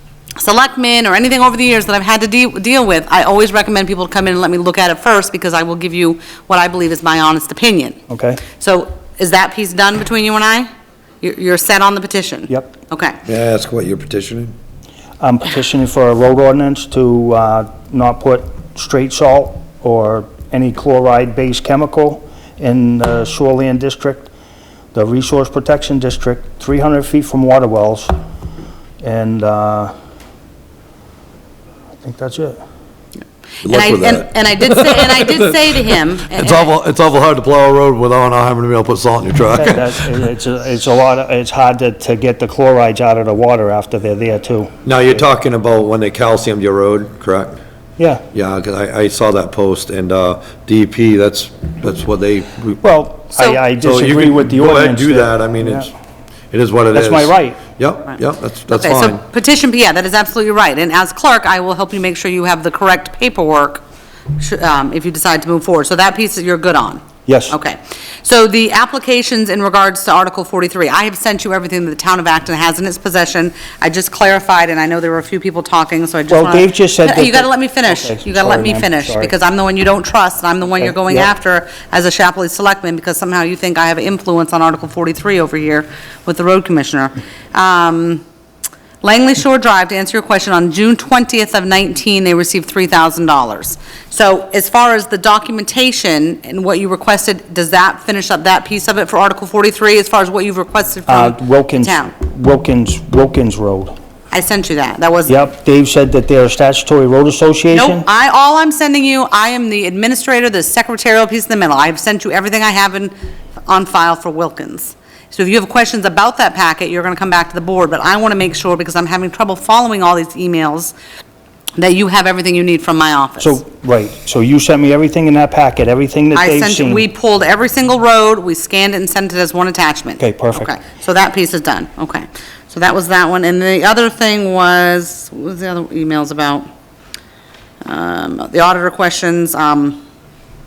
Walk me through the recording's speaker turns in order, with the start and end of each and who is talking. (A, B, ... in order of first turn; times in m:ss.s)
0:00.4-0:08.0 A
0:08.1-0:08.4 B
0:08.6-0:10.7 A
0:11.2-0:13.2 A
0:13.2-0:14.5 C
0:15.2-0:24.3 B
0:24.9-0:28.1 B
0:29.0-0:29.9 B
0:32.0-0:32.6 B
0:33.6-0:35.8 C
0:33.6-0:36.7 A
0:36.3-0:40.0 C
0:39.5-0:44.7 B
0:44.8-0:47.6 C
0:48.0-0:48.2 B
0:48.3-0:52.8 C
0:52.8-0:55.9 B
0:53.4-0:53.6 A
0:53.8-0:55.9 C
0:56.5-0:59.2 C
0:56.9-0:57.6 B
0:58.7-1:03.8 A
1:04.4-1:28.2 A
1:07.2-1:07.6 B
1:16.3-1:19.3 B
1:20.7-1:21.3 B
1:29.0-1:42.1 A
1:41.0-1:43.9 B
1:44.3-1:45.4 A
1:45.3-1:48.0 B
1:47.7-1:53.1 A
1:53.6-2:00.9 A
2:01.8-2:03.6 A
2:03.4-2:07.0 B
2:06.3-2:16.7 A
2:10.2-2:10.7 B
2:17.8-2:20.0 A